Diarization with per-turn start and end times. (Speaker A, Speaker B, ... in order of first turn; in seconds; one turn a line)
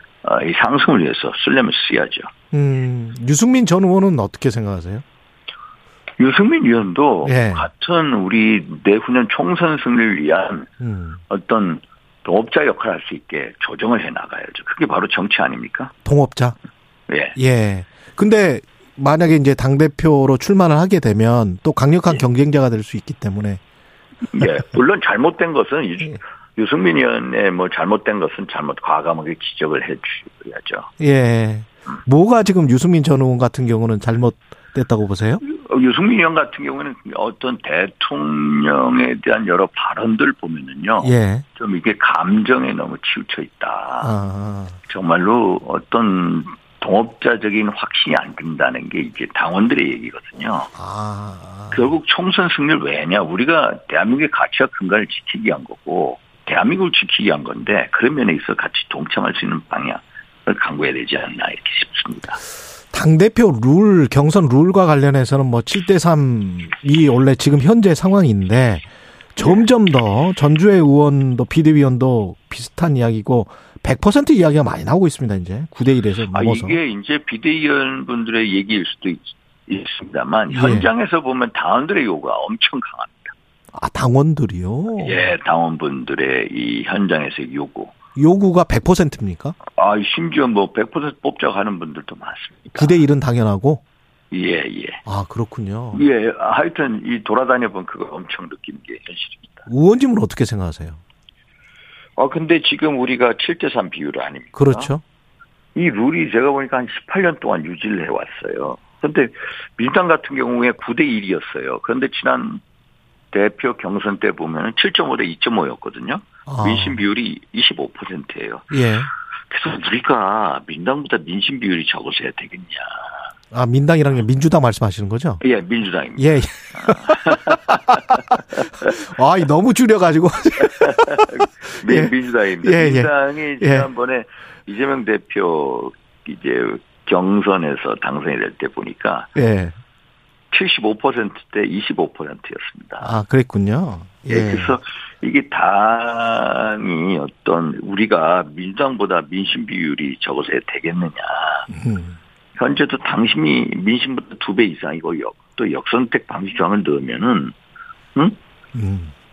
Speaker A: 0.2-2.3
Speaker B: 2.5-5.0
Speaker A: 6.2-10.7
Speaker B: 7.2-7.7
Speaker B: 10.8-11.2
Speaker A: 11.3-15.9
Speaker B: 16.0-16.6
Speaker A: 17.1-17.4
Speaker B: 17.4-23.6
Speaker A: 24.2-30.9
Speaker B: 31.0-35.4
Speaker A: 35.4-44.2
Speaker B: 41.0-41.4
Speaker B: 44.0-44.8
Speaker A: 44.9-50.7
Speaker B: 50.8-51.9
Speaker A: 51.7-62.4
Speaker B: 62.9-76.8
Speaker A: 69.4-69.7
Speaker A: 76.3-83.3
Speaker B: 80.5-80.9
Speaker B: 83.7-85.3
Speaker A: 85.0-87.9
Speaker B: 88.2-89.5
Speaker A: 89.8-93.1
Speaker B: 92.8-93.8
Speaker A: 94.3-95.0
Speaker B: 95.0-96.0
Speaker A: 95.9-99.7
Speaker B: 99.7-101.0
Speaker A: 102.2-104.9
Speaker B: 104.5-105.0
Speaker A: 105.7-112.6
Speaker A: 113.3-118.7
Speaker B: 116.5-117.0
Speaker B: 118.7-119.1
Speaker A: 119.5-123.0
Speaker B: 123.5-125.4
Speaker A: 125.4-128.9
Speaker B: 126.2-127.5
Speaker B: 129.0-133.9
Speaker A: 130.6-139.3
Speaker B: 139.3-139.7
Speaker A: 140.5-143.1
Speaker B: 143.0-144.8
Speaker A: 144.3-151.7
Speaker B: 151.7-152.2
Speaker A: 152.6-157.5
Speaker B: 158.7-159.1